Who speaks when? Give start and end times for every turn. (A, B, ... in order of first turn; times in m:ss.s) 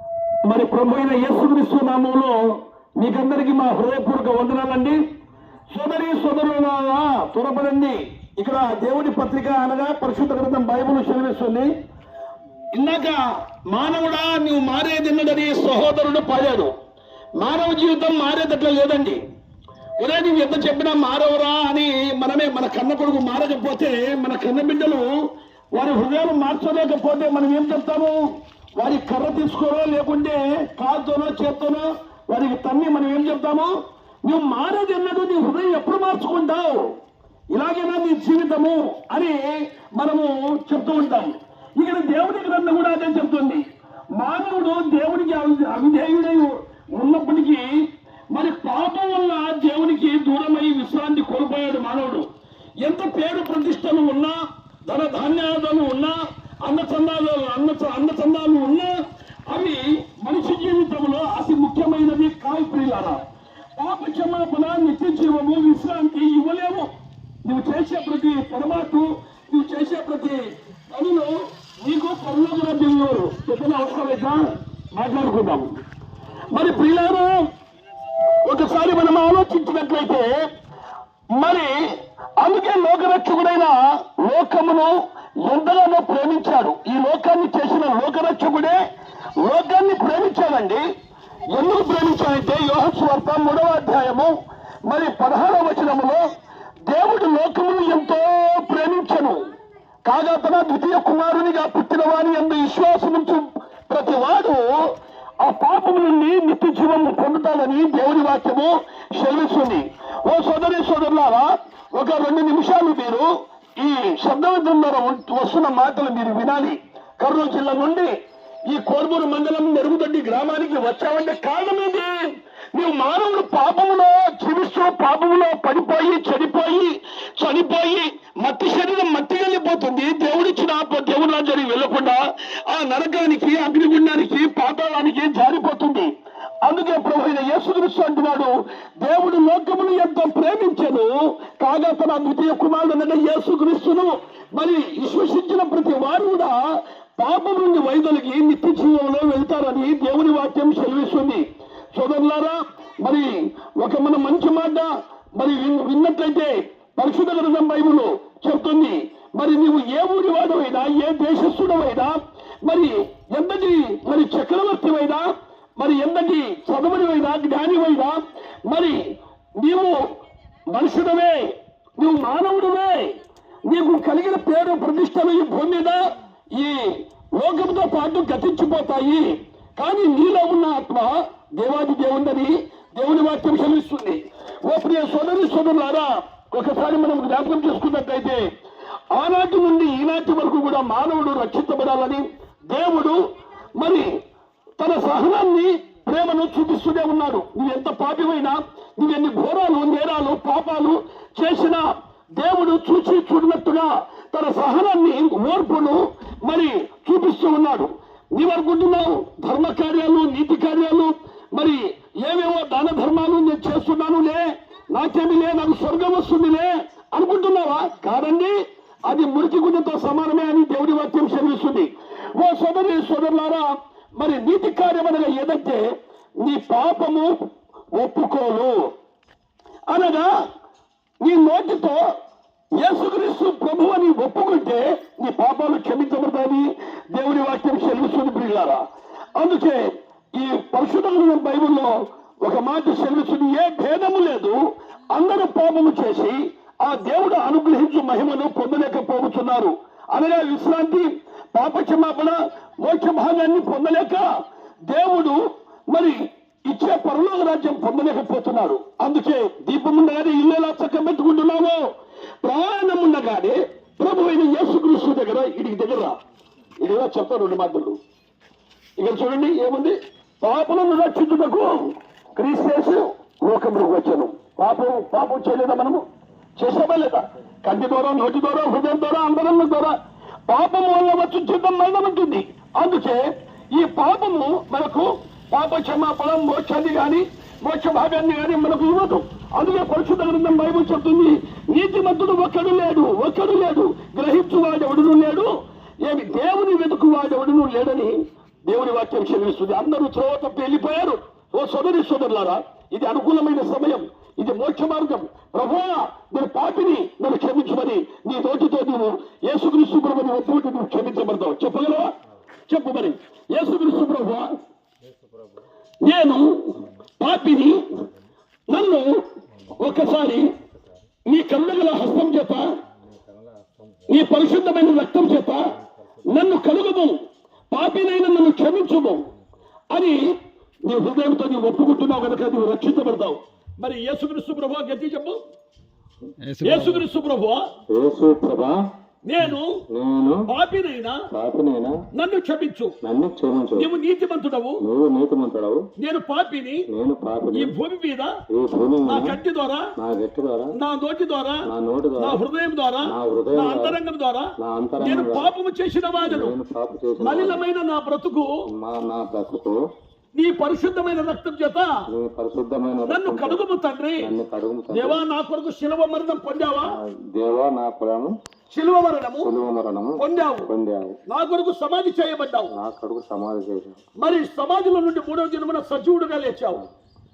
0:00.5-0:05.0 A
0:05.7-0:11.7 A
0:12.7-0:16.7 A
0:17.4-0:19.2 A
0:20.0-0:25.2 A
0:25.7-0:28.2 A
0:28.8-0:33.7 A
0:34.2-0:36.9 A
0:37.5-0:43.6 A
0:44.2-0:47.8 A
0:48.3-0:52.3 A
0:52.8-1:03.2 A
1:03.8-1:06.9 A
1:07.4-1:14.4 A
1:14.9-1:15.7 A
1:16.5-1:17.5 A
1:18.4-1:20.3 A
1:21.4-1:21.8 A
1:22.4-1:28.8 A
1:29.4-1:30.8 A
1:31.5-1:34.3 A
1:34.9-1:36.2 A
1:36.9-1:39.5 A
1:40.0-1:44.8 A
1:45.4-1:58.1 A
1:58.7-2:16.1 A
2:16.6-2:45.3 A
2:45.8-2:50.0 A
2:50.7-2:53.2 A
2:53.7-2:56.0 A
2:56.6-3:08.5 A
3:09.1-3:13.2 A
3:13.8-3:14.1 A
3:14.8-3:21.8 A
3:22.4-3:38.6 A
3:39.1-3:45.9 A
3:46.4-3:47.4 A
3:47.9-3:48.9 A
3:49.9-3:50.3 A
3:51.2-3:52.0 A
3:52.8-3:58.8 A
3:59.4-3:59.8 A
4:00.4-4:04.6 A
4:05.1-4:14.3 A
4:14.9-4:21.8 A
4:22.4-4:26.2 A
4:26.8-4:28.0 A
4:29.0-4:36.0 A
4:36.6-4:40.0 A
4:40.5-4:55.5 A
4:56.0-5:12.1 A
5:12.7-5:14.6 A
5:15.0-5:15.7 B
5:16.0-5:17.8 A
5:18.7-5:19.1 A
5:19.8-5:20.5 A
5:20.6-5:21.0 B
5:21.3-5:22.7 A
5:23.0-5:24.3 B
5:24.1-5:25.6 A
5:25.8-5:26.4 B
5:26.3-5:29.3 A
5:29.9-5:30.2 A
5:30.9-5:35.4 A
5:36.6-5:37.0 B
5:36.6-5:37.7 A
5:37.9-5:38.8 B
5:39.3-5:39.8 A
5:39.9-5:40.5 B
5:40.5-5:41.2 A
5:41.3-5:42.0 B
5:42.2-5:43.0 A
5:43.0-5:43.9 B
5:43.8-5:44.8 A
5:44.8-5:45.8 B
5:46.0-5:46.8 A
5:46.9-5:47.8 B
5:47.5-5:48.3 A
5:48.5-5:49.4 B
5:49.1-5:49.9 A
5:50.0-5:50.7 B
5:50.8-5:51.7 A
5:51.7-5:52.4 B
5:52.2-5:56.6 A
5:53.1-5:54.0 B
5:54.6-5:55.5 B
5:56.2-5:57.6 B
5:57.2-5:58.5 A
5:58.7-5:59.8 B
6:00.4-6:01.9 A
6:02.1-6:03.6 B
6:03.1-6:04.3 A
6:04.2-6:05.2 B
6:04.9-6:07.0 A
6:06.9-6:08.3 B
6:08.7-6:09.5 A
6:09.4-6:11.2 B
6:10.2-6:10.7 A
6:11.3-6:12.7 A
6:12.7-6:14.0 B
6:14.2-6:16.8 A